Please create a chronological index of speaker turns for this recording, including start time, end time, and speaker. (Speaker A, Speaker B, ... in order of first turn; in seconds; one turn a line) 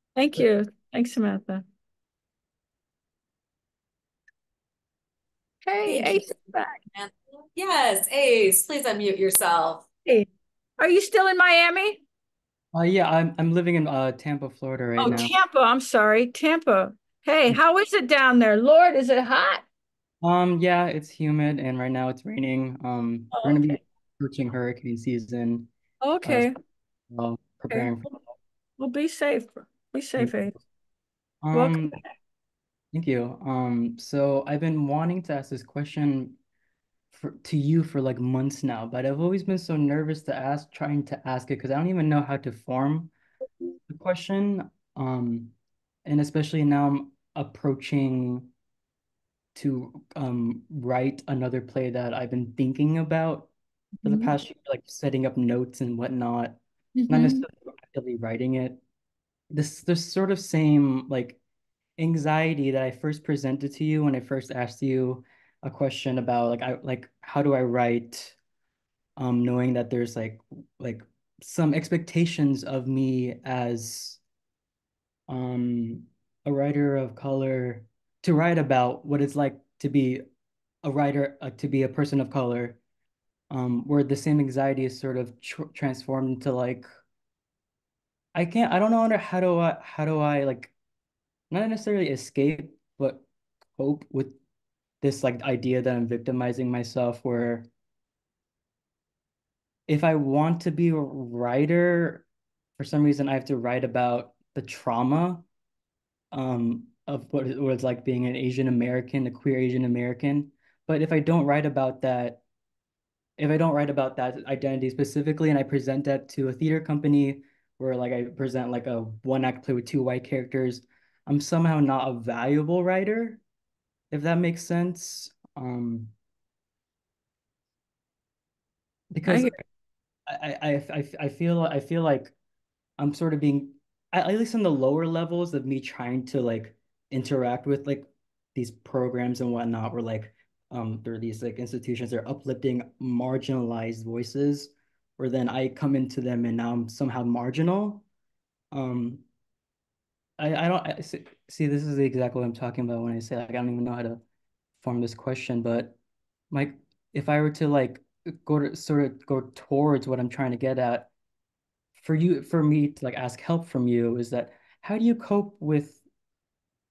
Speaker A: 0.2-1.6
Speaker A: 5.7-6.8
Speaker B: 5.9-6.3
Speaker B: 6.9-9.9
Speaker A: 10.8-12.0
Speaker C: 12.7-15.3
Speaker A: 15.0-19.6
Speaker C: 20.2-25.7
Speaker A: 23.3-23.8
Speaker A: 26.0-26.6
Speaker C: 26.2-26.5
Speaker C: 27.1-28.4
Speaker A: 28.8-30.6
Speaker C: 30.2-30.6
Speaker C: 31.4-32.0
Speaker A: 31.5-32.0
Speaker C: 32.9-36.4
Speaker C: 37.1-43.1
Speaker C: 43.9-45.5
Speaker C: 46.1-48.5
Speaker C: 49.5-53.5
Speaker A: 54.0-54.3
Speaker C: 54.0-58.8
Speaker A: 57.0-57.5
Speaker C: 59.5-61.4
Speaker C: 62.0-68.4
Speaker C: 69.2-74.2
Speaker C: 75.3-80.2
Speaker C: 80.8-82.8
Speaker C: 83.5-86.9
Speaker C: 88.3-90.7
Speaker C: 91.5-94.4
Speaker C: 95.0-97.7
Speaker C: 99.9-102.3
Speaker C: 102.8-105.5
Speaker C: 106.3-112.4
Speaker C: 113.4-123.4
Speaker C: 124.1-126.1
Speaker C: 129.1-129.6
Speaker A: 129.3-129.6
Speaker C: 130.3-132.3
Speaker C: 133.0-148.1
Speaker C: 148.7-149.2
Speaker C: 150.4-154.2
Speaker C: 154.8-156.0
Speaker C: 156.5-161.1
Speaker C: 161.9-166.0